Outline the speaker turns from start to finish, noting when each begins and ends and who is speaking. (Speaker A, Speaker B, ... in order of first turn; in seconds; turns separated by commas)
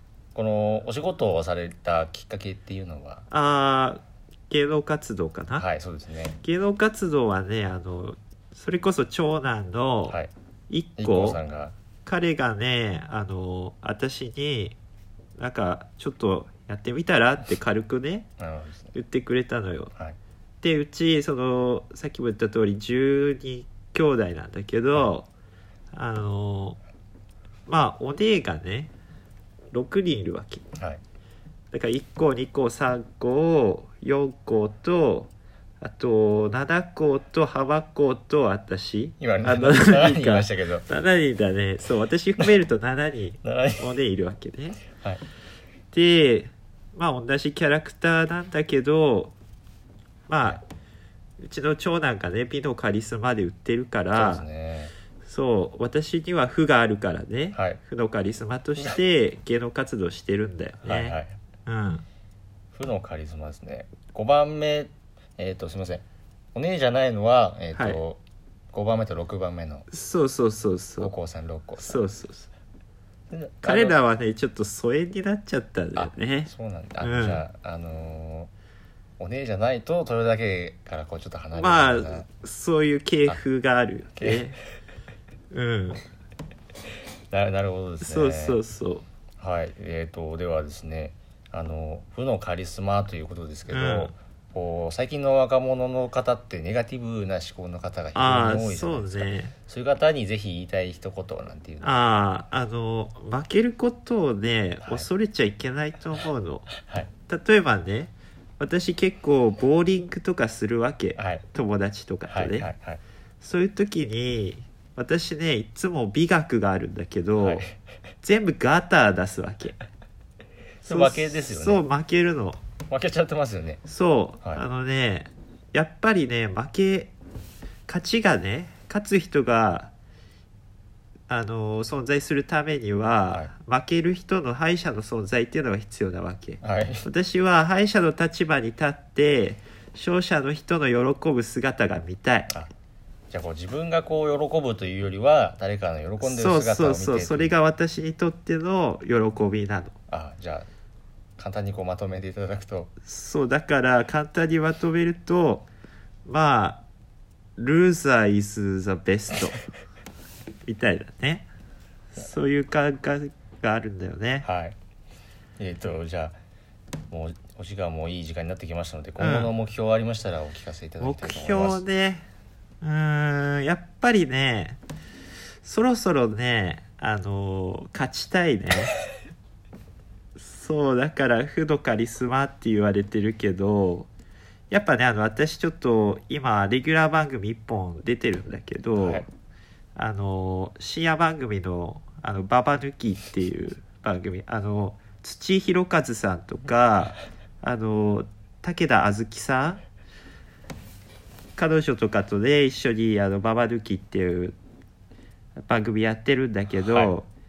Speaker A: 0.3-3.2, Speaker B: 3.3-5.7, Speaker A: 5.6-6.4, Speaker B: 6.4-10.2, Speaker B: 10.7-11.4, Speaker A: 11.0-11.7, Speaker B: 12.1-14.8, Speaker B: 15.4-18.3, Speaker A: 18.4-18.9, Speaker B: 18.9-19.9, Speaker B: 20.6-25.3, Speaker B: 25.9-26.8, Speaker B: 27.7-28.9, Speaker B: 29.7-30.6, Speaker B: 31.7-44.8, Speaker A: 39.2-40.9, Speaker A: 43.4-43.8, Speaker A: 45.0-45.2, Speaker B: 45.9-49.3, Speaker B: 50.3-50.6, Speaker B: 51.4-54.5, Speaker A: 54.1-54.9, Speaker B: 55.2-62.0, Speaker A: 57.5-57.8, Speaker A: 60.8-61.4, Speaker A: 62.7-68.2, Speaker B: 67.7-68.0, Speaker A: 68.7-69.9, Speaker B: 69.9-71.1, Speaker A: 71.0-72.0, Speaker B: 71.8-72.5, Speaker A: 73.3-74.0, Speaker B: 73.6-76.5, Speaker A: 76.0-78.5, Speaker B: 77.0-77.4, Speaker A: 79.2-82.3, Speaker B: 81.5-84.6, Speaker A: 84.2-84.4, Speaker B: 85.5-86.0, Speaker A: 87.3-88.6, Speaker B: 88.0-89.1, Speaker A: 89.4-102.0, Speaker B: 93.7-94.1, Speaker B: 98.2-99.5, Speaker B: 101.8-106.7, Speaker A: 106.8-107.1, Speaker B: 107.3-112.7, Speaker A: 111.2-111.4, Speaker A: 112.3-113.0, Speaker B: 113.4-117.6, Speaker A: 117.4-117.7, Speaker B: 118.2-119.8, Speaker A: 120.8-121.8, Speaker B: 120.9-122.6, Speaker A: 122.9-123.8, Speaker B: 123.8-127.1, Speaker B: 127.9-129.9, Speaker B: 131.3-142.5, Speaker A: 136.6-137.1, Speaker A: 143.3-147.5, Speaker B: 146.2-149.9, Speaker A: 150.1-150.7, Speaker A: 151.4-152.9, Speaker B: 153.1-155.7, Speaker B: 156.3-156.8, Speaker B: 157.6-159.6, Speaker B: 160.7-161.5, Speaker B: 162.1-164.5, Speaker A: 164.4-164.8, Speaker A: 165.6-166.4, Speaker A: 167.1-171.8, Speaker B: 169.2-169.5, Speaker B: 171.0-172.2, Speaker B: 172.8-174.8, Speaker B: 175.6-178.9, Speaker B: 180.4-184.1, Speaker B: 184.7-189.2, Speaker A: 189.0-189.3, Speaker B: 190.0-199.8, Speaker B: 201.6-204.6, Speaker B: 205.6-207.3, Speaker A: 206.8-207.1